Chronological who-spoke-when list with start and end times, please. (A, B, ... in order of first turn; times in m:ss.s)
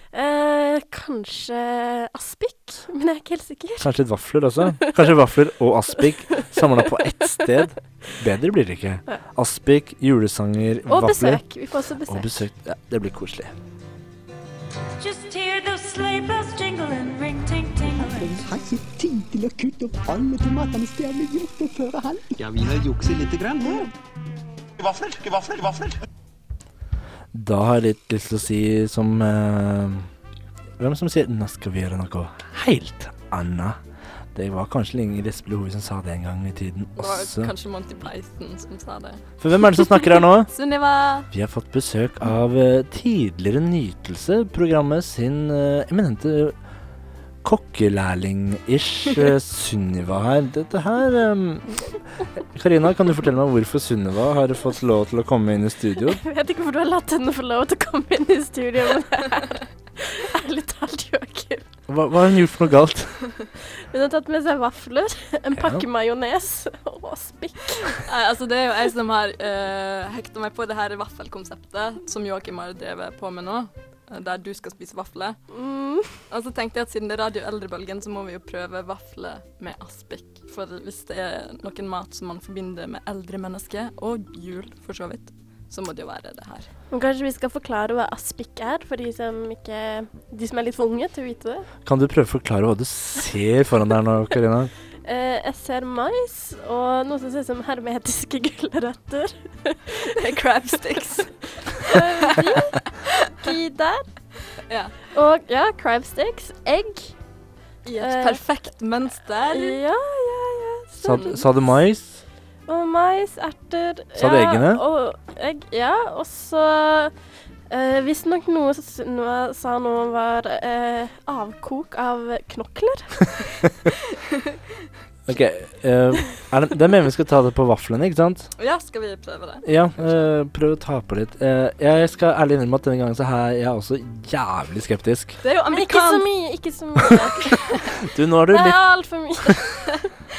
0:00.1-0:03.9 A
0:03.8-0:11.4 B
0:10.9-0:12.4 A
0:12.1-0:13.6 B
0:15.0-0:18.3 C
0:17.8-0:23.9 D
0:25.2-0:25.9 D
0:27.3-0:30.1 B
0:30.8-0:33.8 B
0:34.3-0:37.5 B
0:37.0-0:39.2 E
0:39.4-0:40.5 B
0:40.5-0:41.3 E
0:41.3-0:46.6 B
0:47.4-0:56.2 B
0:56.1-1:01.6 A
1:01.9-1:03.2 B
1:03.8-1:07.9 A
1:05.6-1:05.8 B
1:08.0-1:15.4 E
1:15.5-1:16.2 A
1:16.3-1:26.7 E
1:26.9-1:31.7 A
1:31.8-1:34.7 B
1:35.0-1:40.2 A
1:40.1-1:42.5 E
1:41.8-1:42.8 A
1:43.4-1:44.1 A
1:44.7-1:45.0 E
1:45.1-1:47.2 A
1:47.8-1:49.8 E
1:48.0-1:48.4 A
1:49.5-1:51.4 A
1:51.0-1:52.2 B
1:51.1-1:51.5 E
1:52.7-1:57.1 A
1:54.2-1:54.8 B
1:57.7-2:03.2 A
2:05.3-2:08.5 B
2:08.6-2:10.3 E
2:09.6-2:15.4 B
2:15.4-2:16.3 E
2:15.7-2:17.9 A
2:18.1-2:18.8 B
2:18.5-2:19.9 A